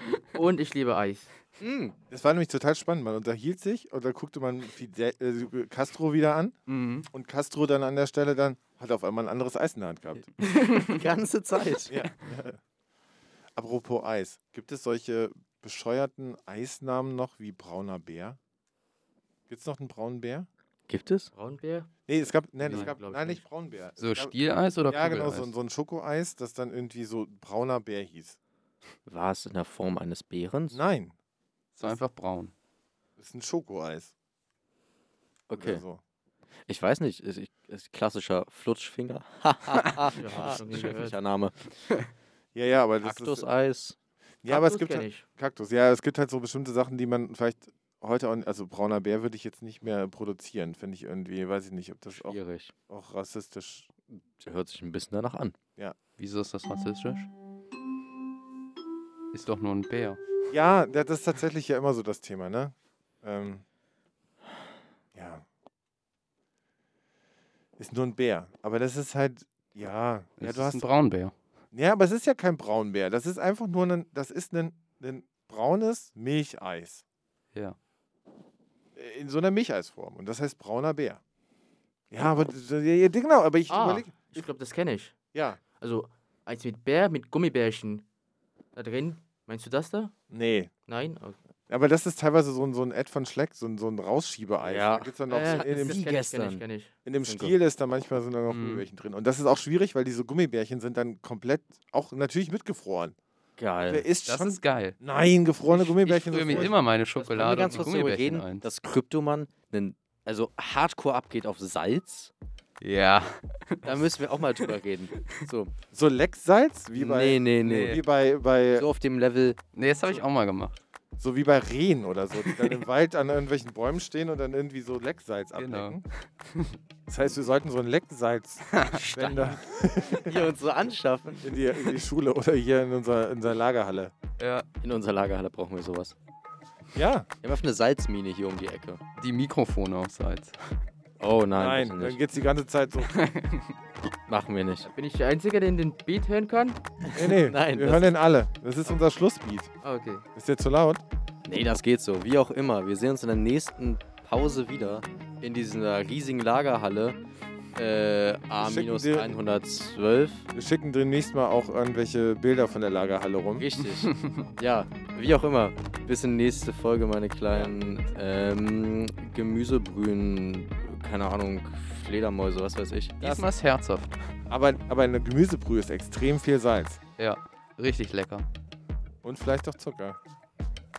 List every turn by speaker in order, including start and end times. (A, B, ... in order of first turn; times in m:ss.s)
0:00.3-0:01.3 A
0:01.6-0:02.0 B
0:02.1-0:10.4 C
0:06.7-0:07.1 D
0:10.4-0:10.8 A
0:10.7-0:12.0 B
0:11.9-0:12.6 C
0:13.6-0:18.4 C
0:19.5-0:20.5 C
0:20.9-0:21.3 B
0:21.3-0:21.9 A
0:22.1-0:28.4 C
0:22.6-0:23.4 A
0:24.0-0:25.5 D
0:29.1-0:30.8 B
0:30.7-0:31.1 C
0:31.8-0:32.5 D
0:33.2-0:34.1 C
0:35.5-0:35.8 B
0:35.6-0:36.0 C
0:36.7-0:41.7 B
0:40.1-0:41.2 A
0:42.5-0:43.5 C
0:43.0-0:44.0 B
0:44.4-0:52.4 C
0:44.5-0:45.2 A
0:52.1-0:52.7 B
0:52.9-0:53.9 C
0:54.4-0:55.6 B
0:56.2-0:57.3 D
0:59.3-1:00.2 D
1:00.5-1:03.6 C
1:05.1-1:05.4 C
1:07.8-1:10.9 C
1:10.4-1:11.3 D
1:11.7-1:17.0 C
1:19.0-1:21.2 C
1:22.1-1:24.4 C
1:23.7-1:25.1 A
1:25.3-1:25.6 C
1:25.8-1:28.0 A
1:28.7-1:30.1 A
1:30.3-1:30.7 C
1:30.8-1:31.4 A
1:31.7-1:36.0 C
1:34.6-1:36.6 B
1:35.3-1:36.9 A
1:37.0-1:43.2 C
1:37.2-1:37.6 B
1:38.5-1:38.8 D
1:43.6-1:44.1 B
1:43.8-1:46.8 C
1:44.2-1:45.0 D
1:45.8-1:48.7 D
1:47.1-1:48.0 A
1:47.3-1:52.3 B
1:52.8-1:54.6 D
1:53.8-1:55.7 B
1:55.9-1:58.9 C
1:56.9-1:57.9 B
1:57.7-1:58.0 D
1:58.7-1:59.6 B
1:59.7-2:00.8 D
2:01.2-2:06.0 C
2:05.5-2:06.8 D
2:07.1-2:10.5 C
2:08.7-2:09.5 D
2:08.9-2:09.5 B
2:10.2-2:12.0 B
2:11.4-2:14.1 C
2:14.4-2:14.6 D
2:14.8-2:16.1 B
2:16.9-2:17.3 C
2:17.4-2:19.0 B
2:19.2-2:20.6 D
2:21.2-2:22.2 B
2:21.6-2:23.2 C
2:23.0-2:23.7 D
2:24.3-2:24.9 B
2:24.8-2:26.8 A
2:27.0-2:28.1 B
2:27.1-2:29.7 C
2:29.8-2:30.2 A
2:30.3-2:31.0 C
2:31.4-2:37.2 B
2:37.7-2:40.4 B
2:38.6-2:39.4 C
2:40.5-2:43.7 C
2:43.6-2:53.2 B
2:53.2-2:54.2 D
2:53.2-2:53.5 C
2:54.5-2:57.0 C
2:57.2-2:58.4 D
2:59.2-3:00.2 C